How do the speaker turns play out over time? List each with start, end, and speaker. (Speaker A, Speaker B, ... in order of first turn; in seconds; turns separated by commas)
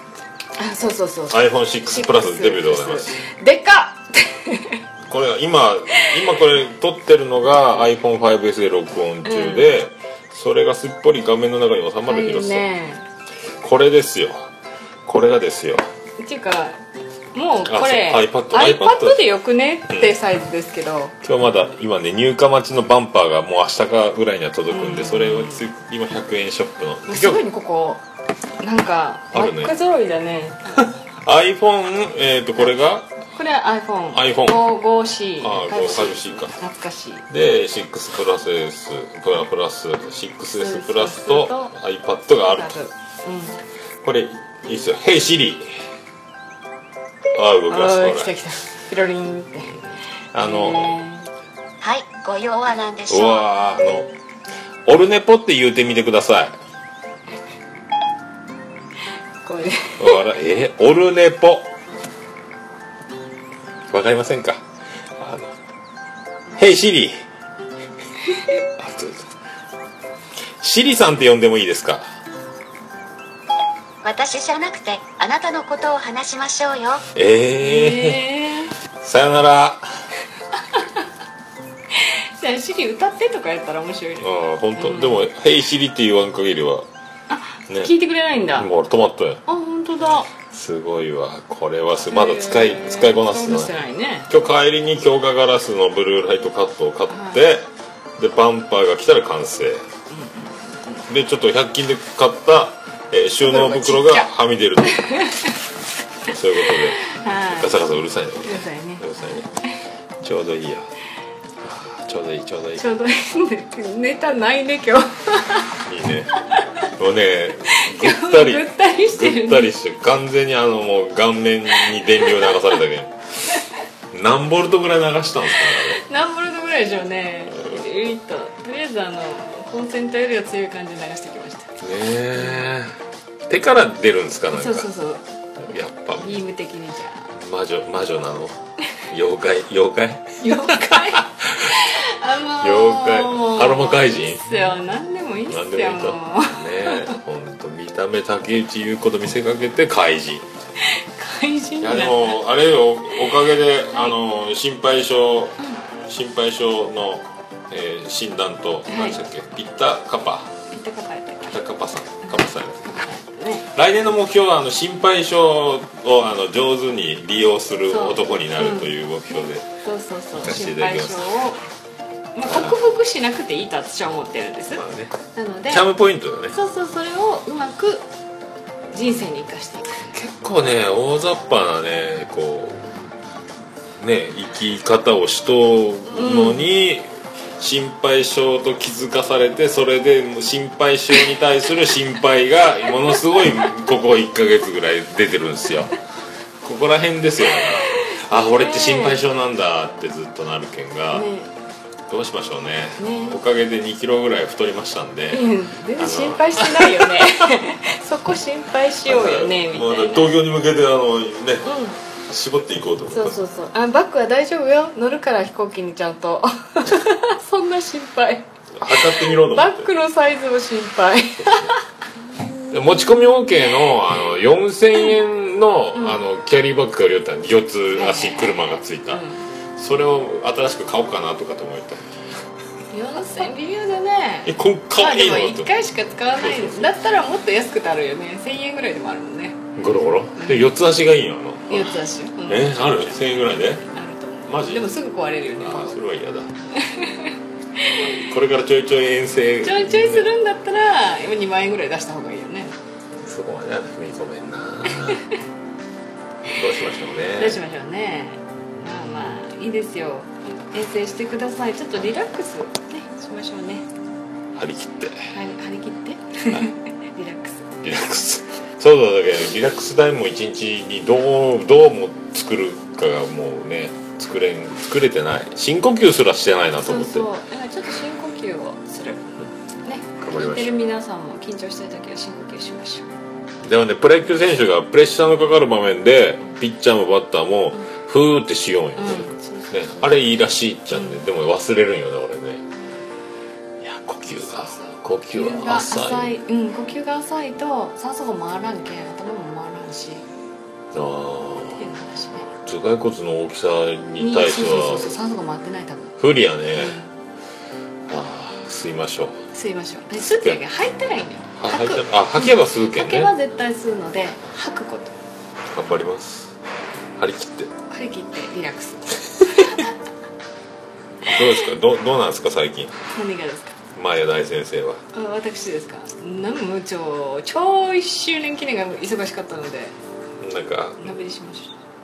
Speaker A: 0.6-4.8, Speaker B: 1.3-3.2, Speaker B: 5.1-12.7, Speaker A: 9.2-9.7, Speaker A: 12.0-13.1, Speaker B: 13.6-14.5, Speaker B: 15.1-15.8, Speaker A: 16.2-16.8, Speaker A: 17.3-21.1, Speaker B: 17.6-19.2, Speaker B: 19.9-20.1, Speaker B: 21.2-27.4, Speaker A: 24.7-25.6, Speaker A: 27.1-28.0, Speaker A: 28.6-30.9, Speaker B: 29.3-29.7, Speaker B: 30.7-33.1, Speaker A: 33.3-37.2, Speaker B: 34.1-34.7, Speaker B: 35.4-36.6, Speaker B: 37.3-42.8, Speaker A: 40.5-41.7, Speaker A: 42.5-43.6, Speaker B: 44.0-45.7, Speaker B: 47.3-48.4, Speaker A: 47.7-49.8, Speaker B: 49.6-51.0, Speaker A: 50.3-51.3, Speaker C: 51.8-53.5, Speaker B: 53.1-54.1, Speaker B: 54.9-56.5, Speaker A: 59.4-60.2, Speaker B: 60.0-61.7, Speaker B: 63.9-64.6, Speaker B: 65.2-65.5, Speaker B: 66.6-67.2, Speaker B: 68.8-69.3, Speaker B: 70.6-72.1, Speaker C: 74.0-77.0, Speaker B: 77.1-78.3, Speaker A: 77.6-78.7, Speaker B: 79.0-79.8, Speaker A: 81.9-85.3, Speaker B: 84.2-86.9, Speaker A: 87.3-88.7, Speaker B: 87.7-89.4, Speaker A: 89.5-90.3, Speaker B: 90.4-93.8, Speaker A: 92.0-94.3, Speaker B: 94.3-99.8, Speaker A: 97.1-97.4, Speaker A: 100.1-101.0, Speaker B: 101.1-105.2, Speaker A: 103.4-105.6, Speaker B: 106.2-109.5, Speaker A: 106.3-107.9, Speaker A: 108.4-109.0, Speaker B: 110.2-110.9, Speaker B: 111.6-112.9, Speaker A: 112.8-115.7, Speaker B: 115.8-116.3, Speaker B: 117.0-123.6, Speaker A: 117.8-119.7, Speaker B: 124.1-126.0, Speaker A: 125.5-131.7, Speaker B: 127.5-127.8, Speaker B: 131.8-134.9, Speaker A: 132.4-132.6, Speaker A: 134.5-135.2, Speaker B: 135.6-136.4, Speaker A: 136.2-137.3, Speaker B: 137.3-141.9, Speaker A: 140.4-147.1, Speaker B: 142.6-144.7, Speaker B: 145.5-150.4, Speaker A: 150.8-152.4, Speaker B: 151.8-160.5, Speaker A: 158.9-159.2, Speaker A: 160.7-161.6, Speaker B: 161.4-163.0, Speaker A: 162.2-163.7, Speaker B: 163.7-169.8, Speaker A: 167.9-168.9, Speaker A: 169.8-171.6, Speaker B: 170.4-171.4, Speaker A: 172.3-175.9, Speaker B: 172.5-172.9, Speaker B: 174.7-175.2, Speaker B: 175.7-176.6, Speaker A: 176.5-178.0, Speaker A: 178.9-180.0, Speaker B: 180.0-182.9, Speaker B: 184.0-196.0, Speaker A: 186.1-186.7, Speaker B: 196.6-201.3, Speaker A: 197.5-199.2, Speaker A: 201.1-201.5, Speaker B: 202.1-207.4, Speaker A: 203.0-203.4, Speaker A: 205.3-210.4, Speaker B: 209.0-213.4, Speaker A: 211.6-212.0, Speaker A: 213.1-221.8, Speaker B: 218.7-219.9, Speaker B: 221.4-221.7, Speaker B: 222.7-229.2, Speaker A: 225.9-226.2, Speaker A: 227.9-229.4, Speaker B: 229.8-232.1, Speaker A: 232.9-239.6, Speaker B: 234.4-235.8, Speaker B: 236.3-237.0, Speaker B: 239.8-243.8, Speaker A: 240.3-240.7, Speaker A: 241.7-246.0, Speaker B: 244.5-246.6, Speaker A: 247.0-248.2, Speaker B: 247.9-250.3, Speaker A: 249.6-252.8, Speaker B: 253.2-255.2, Speaker A: 254.9-255.2, Speaker B: 256.5-257.6, Speaker A: 257.4-263.9, Speaker B: 264.5-265.3, Speaker A: 265.3-267.7, Speaker B: 267.8-277.3, Speaker A: 276.8-279.3, Speaker A: 279.8-283.1, Speaker B: 280.2-280.8, Speaker B: 283.6-292.6, Speaker A: 288.9-290.3, Speaker A: 290.9-291.2, Speaker B: 293.8-296.4, Speaker A: 294.2-300.2, Speaker B: 300.9-301.9, Speaker A: 301.8-302.5, Speaker B: 302.6-305.1, Speaker A: 304.2-306.1, Speaker B: 306.2-307.0, Speaker A: 306.7-307.1, Speaker B: 308.1-309.4, Speaker A: 309.5-315.1, Speaker B: 310.2-310.6, Speaker B: 311.6-313.3, Speaker B: 315.6-316.6, Speaker B: 317.1-317.7, Speaker A: 317.9-319.9, Speaker B: 321.2-323.0, Speaker A: 323.1-323.8, Speaker B: 323.9-325.0, Speaker A: 325.1-329.9, Speaker B: 330.4-331.1, Speaker A: 331.0-331.8